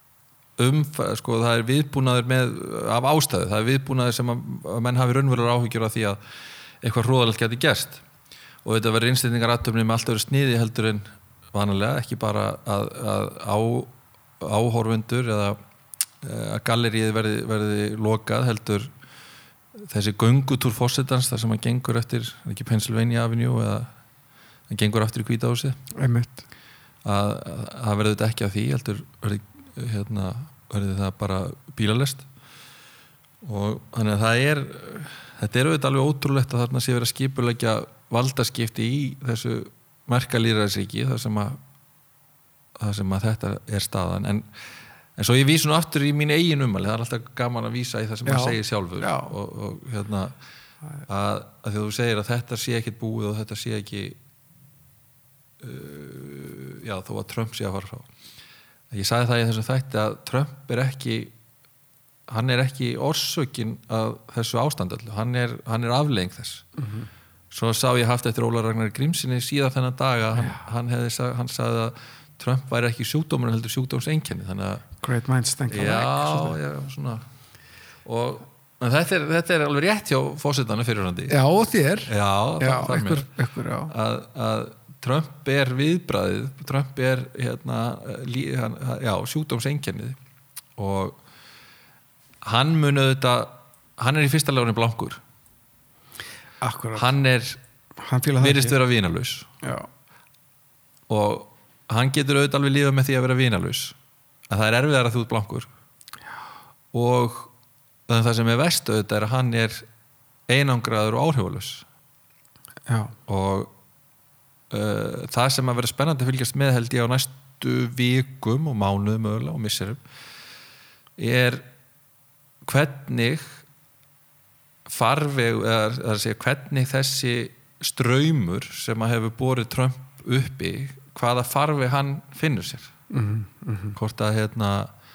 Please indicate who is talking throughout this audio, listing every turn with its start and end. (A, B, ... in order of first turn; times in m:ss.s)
0:00.6-0:06.2 A
0:06.8-0:08.0 A
0:08.6-0:15.6 A
0:16.2-0:18.9 A
0:19.8-0:23.9 A
0:24.7-0:25.8 A
0:25.9-0:26.4 B
0:27.0-0:32.3 A
0:33.4-0:41.6 A
0:42.8-0:44.5 A
0:45.2-0:50.3 A
0:48.2-0:49.3 B
0:51.1-0:54.2 A
0:55.6-0:58.1 A
0:58.9-1:01.3 A
1:02.3-1:06.6 A
1:06.8-1:07.1 B
1:07.5-1:14.8 A
1:10.4-1:10.6 B
1:15.0-1:16.6 B
1:15.7-1:17.2 A
1:18.0-1:21.3 A
1:21.3-1:23.9 B
1:22.1-1:23.3 A
1:23.9-1:30.2 A
1:30.8-1:31.2 A
1:32.4-1:35.2 A
1:36.6-1:37.1 B
1:36.9-1:37.6 A
1:38.0-1:38.8 B
1:38.4-1:39.5 A
1:39.6-1:39.9 B
1:41.1-1:44.0 A
1:44.5-1:45.7 A
1:46.9-1:47.5 A
1:48.1-1:49.8 A
1:50.5-1:51.8 A
1:52.9-1:53.1 B
1:53.3-1:53.7 A
1:54.7-2:00.0 A
2:01.2-2:01.6 A
2:02.6-2:03.6 A
2:04.8-2:12.9 A
2:13.1-2:14.0 B
2:13.9-2:14.9 A